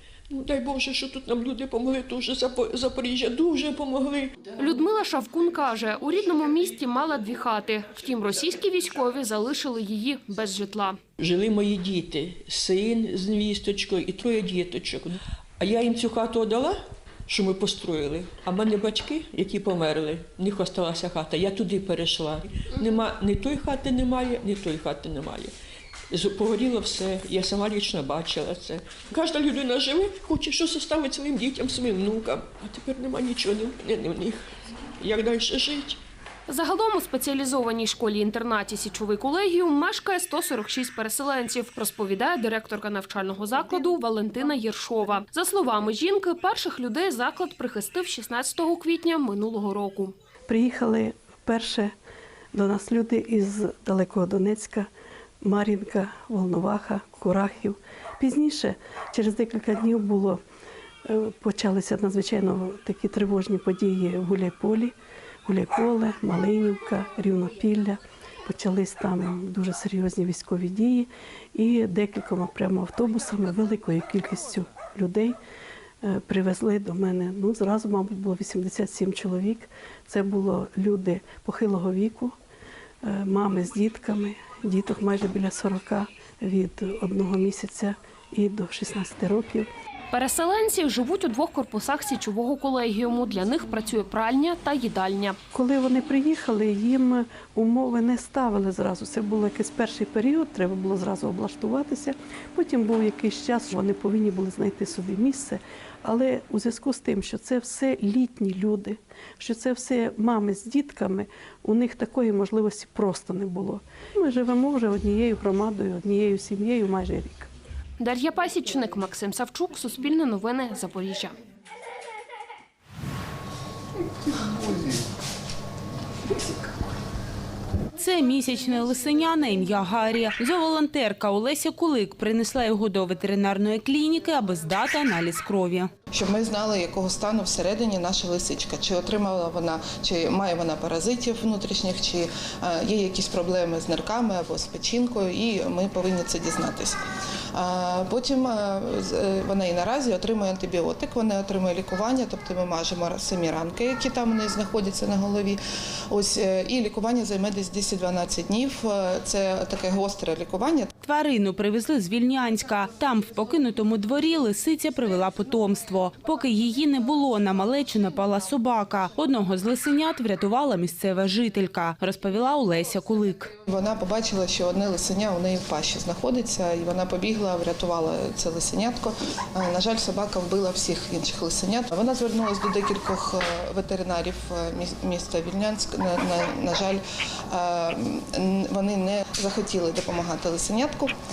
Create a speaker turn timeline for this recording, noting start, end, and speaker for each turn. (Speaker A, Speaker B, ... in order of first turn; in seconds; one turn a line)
Speaker A: 0.3-4.5
Speaker B: 4.6-11.0
Speaker A: 11.2-25.5
Speaker A: 26.1-34.4
Speaker A: 35.0-36.0
Speaker B: 36.5-50.1
Speaker C: 50.5-51.9
Speaker C: 52.5-54.9
Speaker C: 55.4-60.4
Speaker C: 61.1-65.0
Speaker C: 65.5-75.4
Speaker C: 76.0-82.4
Speaker C: 83.0-89.7
Speaker B: 90.1-95.4
Speaker C: 95.5-117.5
Speaker B: 118.0-121.3
Speaker D: 128.0-135.9
Speaker E: 136.1-147.0
Speaker E: 147.5-155.6
Speaker E: 156.1-160.9
Speaker D: 161.0-173.5
Speaker E: 173.7-191.1